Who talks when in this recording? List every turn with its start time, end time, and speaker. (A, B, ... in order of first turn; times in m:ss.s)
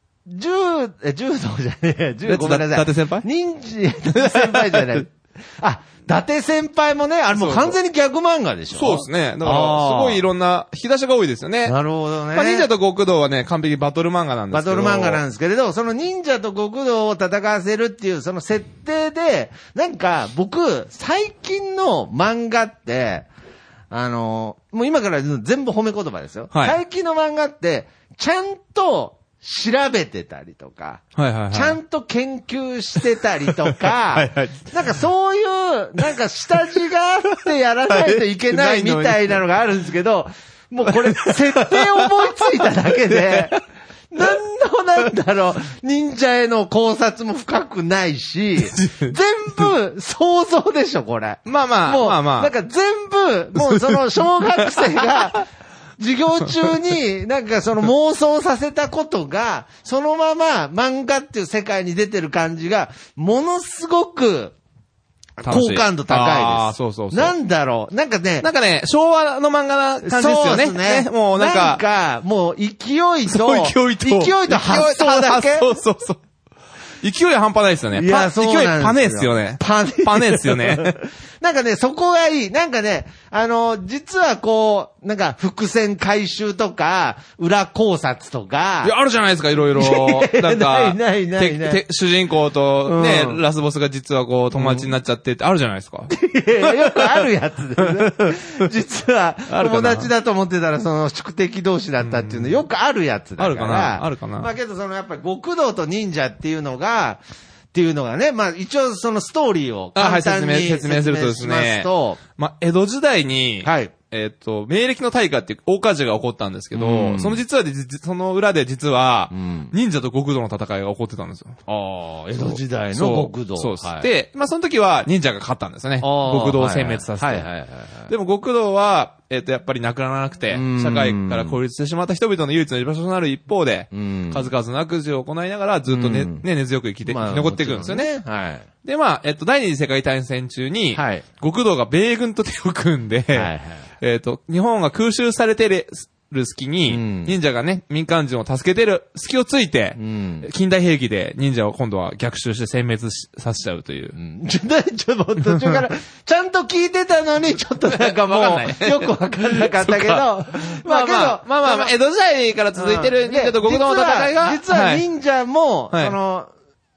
0:00.3-0:10.2 A
0:02.2-0:03.2 B
0:04.2-0:05.0 B
0:07.3-0:07.8 B
0:08.7-0:11.8 B
0:11.6-0:12.7 A
0:12.3-0:15.2 B
0:14.5-0:23.3 A
0:23.9-0:55.4 A
0:31.2-0:31.8 B
0:33.5-0:34.7 B
0:37.9-0:39.4 B
0:40.8-0:43.6 B
0:48.6-0:49.1 B
0:51.4-0:52.5 B
0:53.7-0:54.0 B
0:54.8-0:55.4 B
0:56.0-1:04.6 A
1:05.4-1:08.5 A
1:05.4-1:07.3 B
1:08.4-1:11.8 B
1:10.0-1:15.7 A
1:13.3-1:16.2 B
1:17.0-1:21.0 B
1:17.9-1:28.9 A
1:28.8-1:36.1 B
1:29.7-1:31.8 A
1:32.8-1:33.4 A
1:34.5-1:34.9 A
1:36.1-1:47.2 A
1:36.6-1:37.3 B
1:37.8-1:38.5 B
1:39.5-1:40.1 B
1:42.0-1:42.6 B
1:43.4-1:44.5 B
1:47.7-1:52.2 A
1:50.0-2:01.6 B
1:53.6-1:53.9 A
1:56.7-1:57.4 A
1:59.3-1:59.7 A
2:01.7-2:04.1 A
2:02.4-2:07.5 B
2:06.0-2:08.1 A
2:08.1-2:18.1 B
2:10.5-2:11.6 A
2:13.9-2:14.5 A
2:15.9-2:16.4 A
2:17.0-2:18.7 A
2:18.8-2:34.2 B
2:20.9-2:21.2 A
2:23.3-2:23.8 A
2:26.9-2:27.4 A
2:30.0-2:30.5 A
2:34.2-2:41.9 A
2:35.4-2:35.8 B
2:37.9-2:45.0 B
2:42.7-2:46.5 A